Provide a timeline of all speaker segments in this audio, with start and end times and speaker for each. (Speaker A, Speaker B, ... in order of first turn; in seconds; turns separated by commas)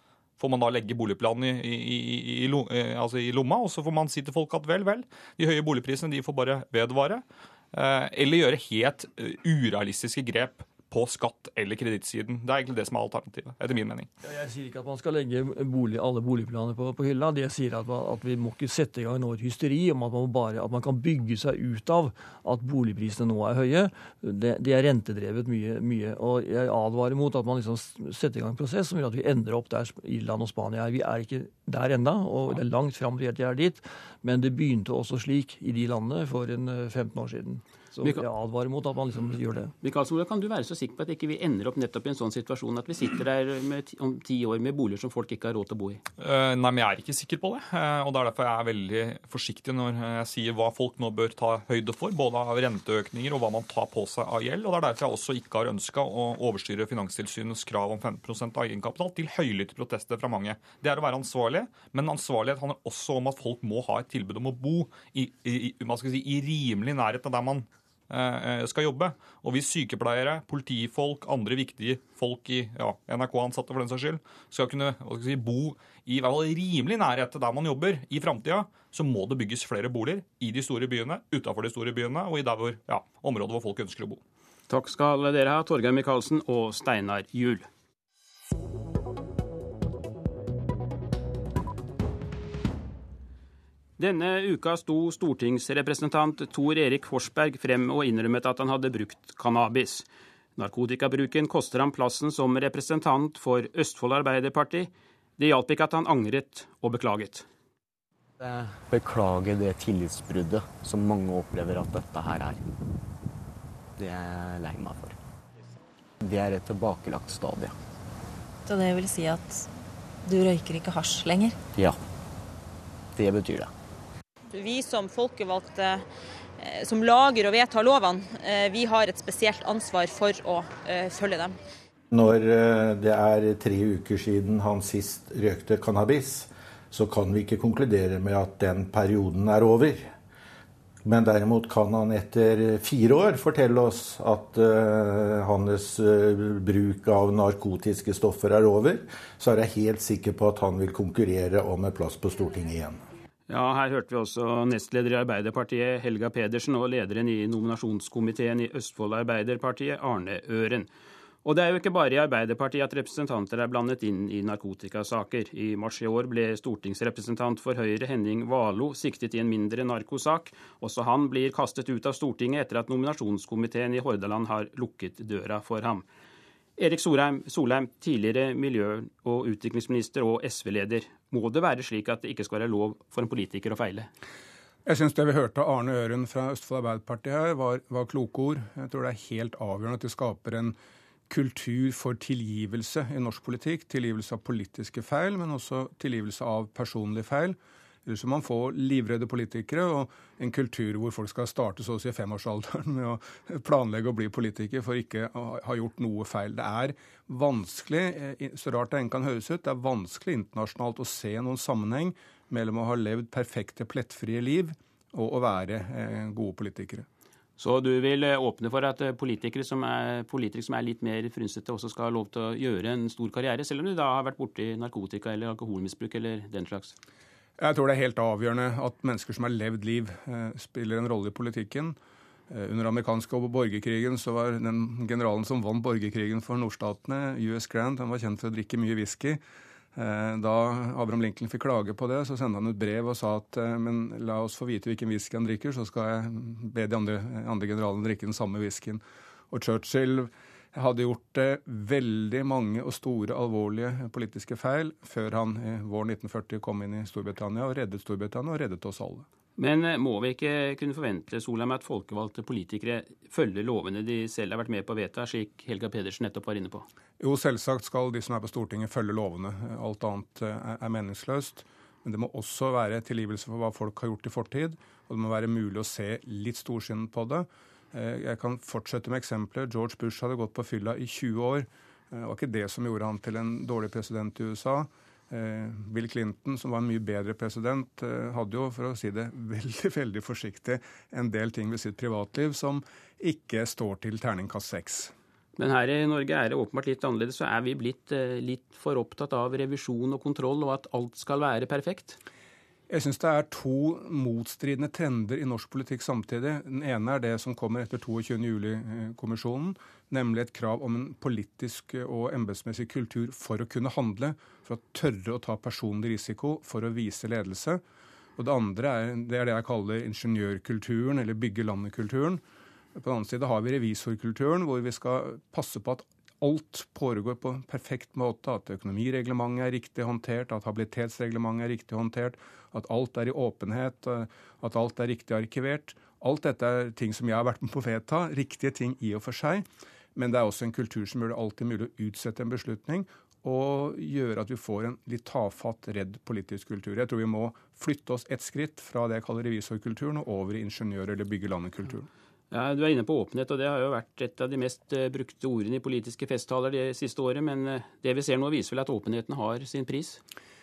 Speaker A: 0.4-14.1, Speaker B: 14.2-39.8, Speaker C: 39.8-46.0, Speaker A: 46.2-84.2, Speaker C: 84.7-87.7, Speaker C: 94.0-100.1, Speaker C: 100.6-107.5, Speaker D: 108.4-112.6, Speaker D: 114.0-115.1, Speaker D: 116.2-117.7, Speaker D: 123.2-123.7, Speaker E: 124.6-125.8, Speaker E: 126.9-128.0, Speaker E: 128.9-130.0, Speaker F: 132.1-140.1, Speaker F: 141.1-153.0, Speaker C: 153.5-160.9, Speaker C: 161.4-176.1, Speaker C: 176.8-184.1, Speaker G: 184.9-190.8, Speaker G: 191.3-217.1, Speaker C: 217.6-226.9, Speaker G: 227.6-232.0, Speaker G: 232.5-239.4, Speaker G: 240.0-259.3, Speaker C: 259.6-266.9, Speaker G: 267.2-295.1, Speaker C: 295.6-302.2, Speaker G: 302.9-317.8, Speaker G: 318.4-322.4, Speaker G: 323.0-352.1, Speaker C: 352.5-360.2